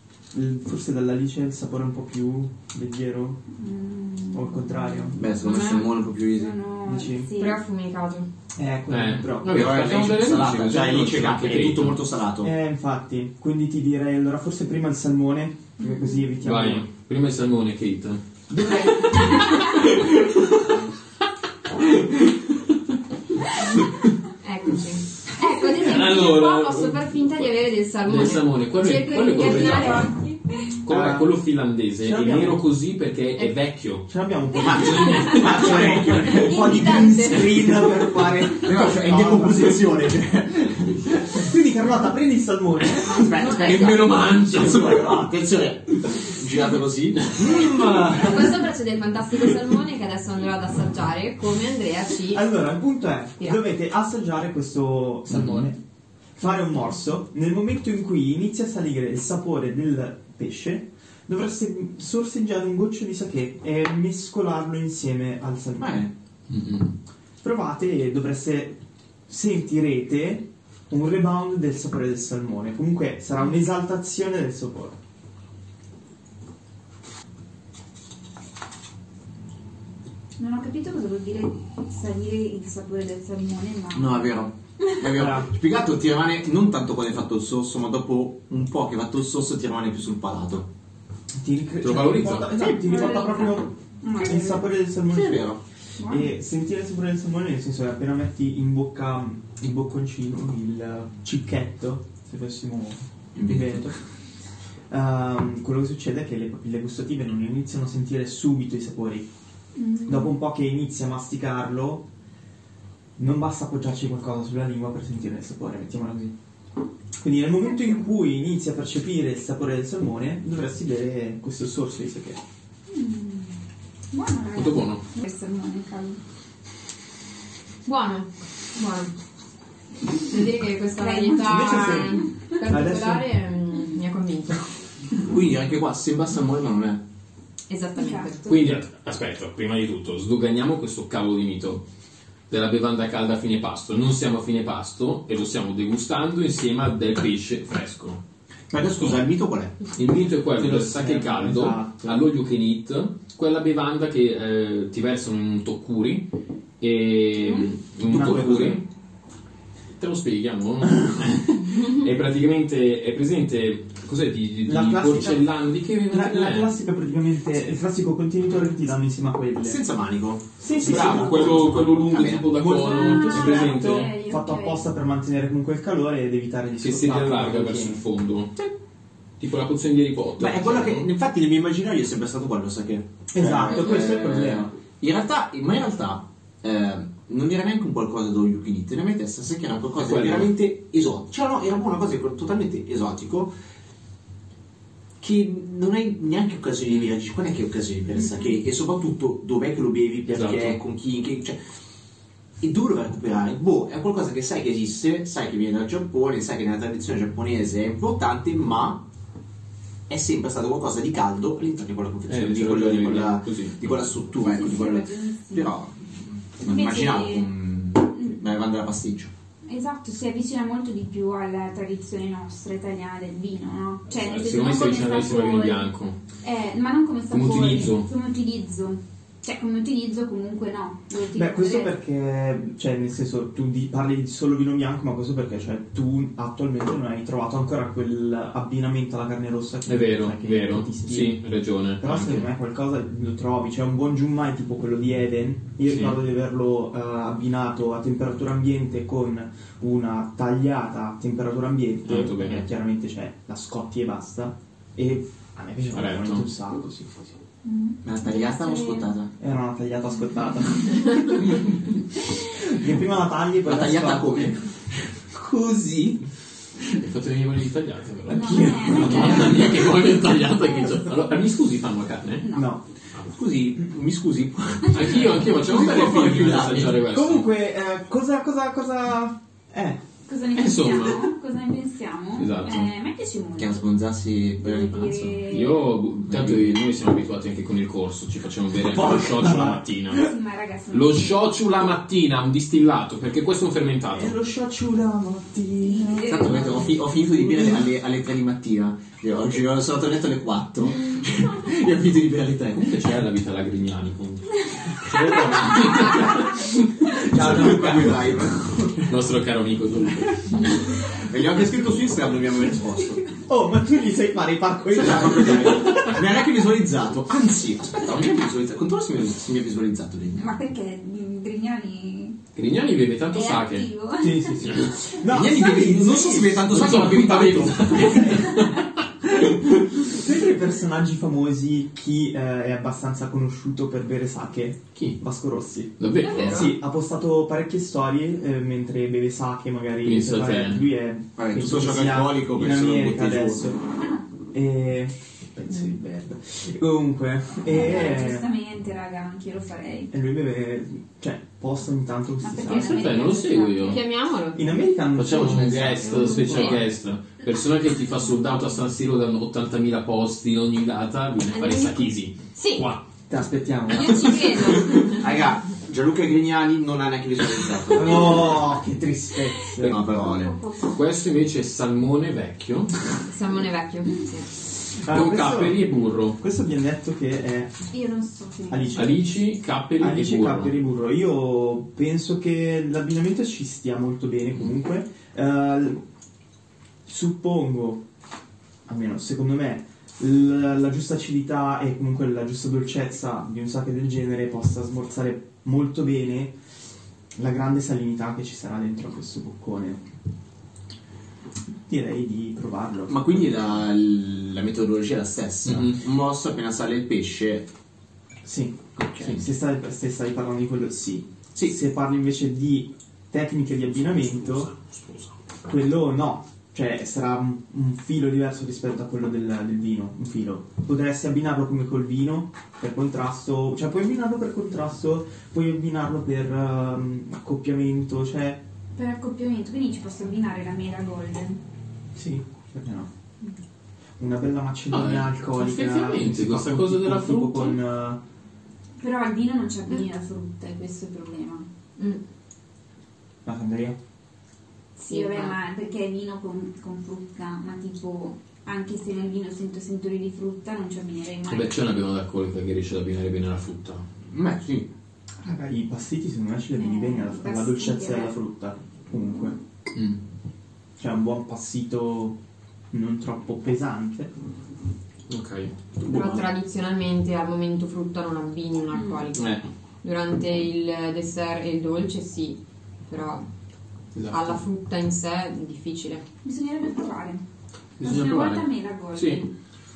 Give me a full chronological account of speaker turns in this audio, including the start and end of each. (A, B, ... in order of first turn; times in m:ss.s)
0:00.3-0:03.4 A
0:03.5-0:07.6 B
0:04.3-0:05.2 A
0:05.2-0:06.6 C
0:05.4-0:05.9 D
0:06.8-0:07.3 A
0:07.4-0:08.3 D
0:08.5-0:09.8 A
0:08.9-0:12.0 E
0:09.4-0:12.5 C
0:12.4-0:16.8 A
0:15.8-0:16.2 B
0:16.4-0:18.2 E
0:18.5-0:19.4 A
0:19.0-0:20.6 E
0:21.8-0:22.7 E
0:24.4-0:30.1 D
0:25.6-0:27.5 E
0:28.0-0:30.1 E
0:28.9-0:30.8 B
0:30.8-0:36.4 E
0:30.9-0:31.4 A
0:32.0-0:32.6 A
0:34.1-0:40.0 A
0:35.3-0:36.6 C
0:36.0-0:37.6 D
0:38.6-0:41.2 C
0:41.2-0:43.4 A
0:43.0-0:48.6 C
0:43.1-0:44.0 D
0:43.5-0:45.2 E
0:47.4-0:48.1 E
0:48.1-0:52.4 D
0:52.3-0:55.8 A
0:55.3-0:55.7 E
0:56.4-1:06.1 A
1:05.8-1:06.1 C
1:06.5-1:06.9 E
1:07.4-1:15.0 A
1:20.4-1:24.2 B
1:23.9-1:30.7 C
1:25.1-1:25.5 A
1:31.3-1:35.4 A
1:31.8-1:32.5 E
1:32.5-1:33.0 C
1:32.8-1:34.7 B
1:35.1-1:35.6 C
1:36.0-1:36.3 B
1:36.0-1:44.0 A
1:43.4-1:43.9 C
1:44.9-1:49.3 A
1:49.8-1:50.3 B
1:50.0-1:52.0 A
1:53.2-1:56.3 A
1:57.2-2:02.4 A
1:57.7-1:58.0 B
2:02.9-2:03.6 B
2:04.1-2:06.2 B
2:04.5-2:05.0 E
2:07.8-2:09.1 D
2:10.1-2:14.6 D
2:11.0-2:12.3 B
2:11.4-2:13.3 A
2:15.2-2:17.0 C
2:17.7-2:18.5 D
2:18.0-2:18.3 B
2:18.4-2:21.8 E
2:22.5-2:28.2 E
2:28.7-2:29.8 C
2:28.9-2:29.2 E
2:30.0-2:36.3 E
2:30.6-2:32.3 A
2:36.8-2:38.8 E
2:38.0-2:38.8 A
2:40.0-2:46.7 E
2:44.6-2:45.5 A
2:46.1-2:49.8 A
2:49.6-2:52.6 C
2:50.6-2:51.7 A
2:50.8-2:54.1 E
2:52.3-2:58.0 A
2:52.9-2:54.9 B
2:56.8-2:58.7 E
2:59.4-3:01.1 E
3:00.4-3:13.5 C
3:03.3-3:04.7 A
3:10.0-3:10.5 E
3:15.2-3:21.6 C
3:20.3-3:20.8 E
3:22.6-3:29.0 C
3:30.1-3:39.3 C
3:32.3-3:34.1 E
3:34.4-3:35.7 B
3:36.6-3:37.5 B
3:39.6-3:45.9 B
3:44.1-3:46.2 E
3:46.4-3:51.9 B
3:47.3-3:48.1 E
3:51.3-4:01.4 A
3:59.9-4:02.5 E
4:02.0-4:17.4 A
4:05.9-4:06.2 E
4:12.0-4:12.7 E
4:15.9-4:16.4 E
4:17.6-4:19.0 B
4:18.0-4:19.3 C
4:19.4-4:24.6 A
4:23.6-4:24.6 C
4:25.3-4:26.2 A
4:26.9-4:32.4 E
4:28.3-4:29.8 B
4:28.3-4:29.8 A
4:32.4-4:32.7 B
4:32.5-4:32.8 A
4:33.3-4:37.0 C
4:34.9-4:37.5 E
4:35.7-4:36.1 A
4:36.9-4:40.0 A
4:40.3-4:43.8 B
4:40.5-4:41.2 E
4:42.4-4:42.9 E
4:43.6-4:45.4 C
4:44.6-4:45.9 B
4:45.5-4:50.3 E
4:46.3-4:46.6 C
4:48.7-4:50.1 A
4:50.1-4:51.4 B
4:50.9-4:54.3 E
4:54.1-4:56.6 A
4:55.9-4:56.9 B
4:56.3-5:03.2 C
5:02.8-5:08.2 E
5:05.2-5:06.2 C
5:07.2-5:09.1 C
5:07.3-5:08.1 A
5:09.0-5:10.4 E
5:11.1-5:13.3 C
5:13.4-5:16.1 A
5:14.9-5:20.6 C
5:20.4-5:22.4 B
5:22.6-5:23.9 E
5:23.3-5:24.6 B
5:24.2-5:26.9 A
5:25.2-5:28.2 C
5:26.6-5:29.3 E
5:27.9-5:28.6 A
5:29.3-5:43.8 A
5:36.0-5:36.7 E
5:36.2-5:36.7 D
5:40.0-5:40.8 E
5:41.4-5:43.6 C
5:44.5-5:48.4 A
5:47.6-5:50.1 B
5:50.1-5:53.1 A
5:52.4-5:54.0 B
5:52.7-5:54.0 E
5:53.8-5:54.8 D
5:54.5-5:56.8 A
5:55.1-6:03.0 E
5:56.1-5:56.8 D
6:01.5-6:02.9 D
6:03.3-6:04.6 A
6:03.9-6:05.2 D
6:05.1-6:08.6 C
6:07.9-6:10.0 A
6:08.0-6:08.4 B
6:09.8-6:10.6 C
6:09.8-6:11.0 B
6:10.9-6:12.9 E
6:13.3-6:14.5 D
6:15.0-6:17.7 A
6:15.1-6:16.4 E
6:17.9-6:19.1 B
6:18.7-6:19.2 A
6:18.9-6:20.7 E
6:20.0-6:26.0 A
6:27.0-6:28.0 A
6:28.9-6:36.6 A
6:37.4-6:40.0 A
6:41.9-6:43.2 A
6:43.1-6:47.7 C
6:45.6-6:46.0 E
6:48.4-6:54.7 A
6:49.0-6:49.4 C
6:54.5-6:55.2 E
6:55.7-7:08.6 A
7:08.9-7:11.6 B
7:12.1-7:13.1 A
7:14.2-7:18.2 A
7:14.9-7:17.8 E
7:19.0-7:21.6 B
7:23.4-7:24.0 A
7:25.0-7:31.8 B
7:25.1-7:25.6 D
7:31.5-7:34.8 E
7:34.3-7:34.8 C
7:35.4-7:39.6 A
7:36.8-7:38.3 B
7:41.0-7:42.4 A
7:42.9-7:44.3 A
7:45.3-7:45.7 E
7:46.0-7:46.5 C
7:46.1-7:53.4 D
7:48.9-7:49.2 B
7:49.3-7:49.6 E
7:54.1-7:54.6 E
7:54.3-7:56.2 D
7:56.4-7:57.4 B
7:58.0-7:59.5 E
7:58.0-7:59.5 B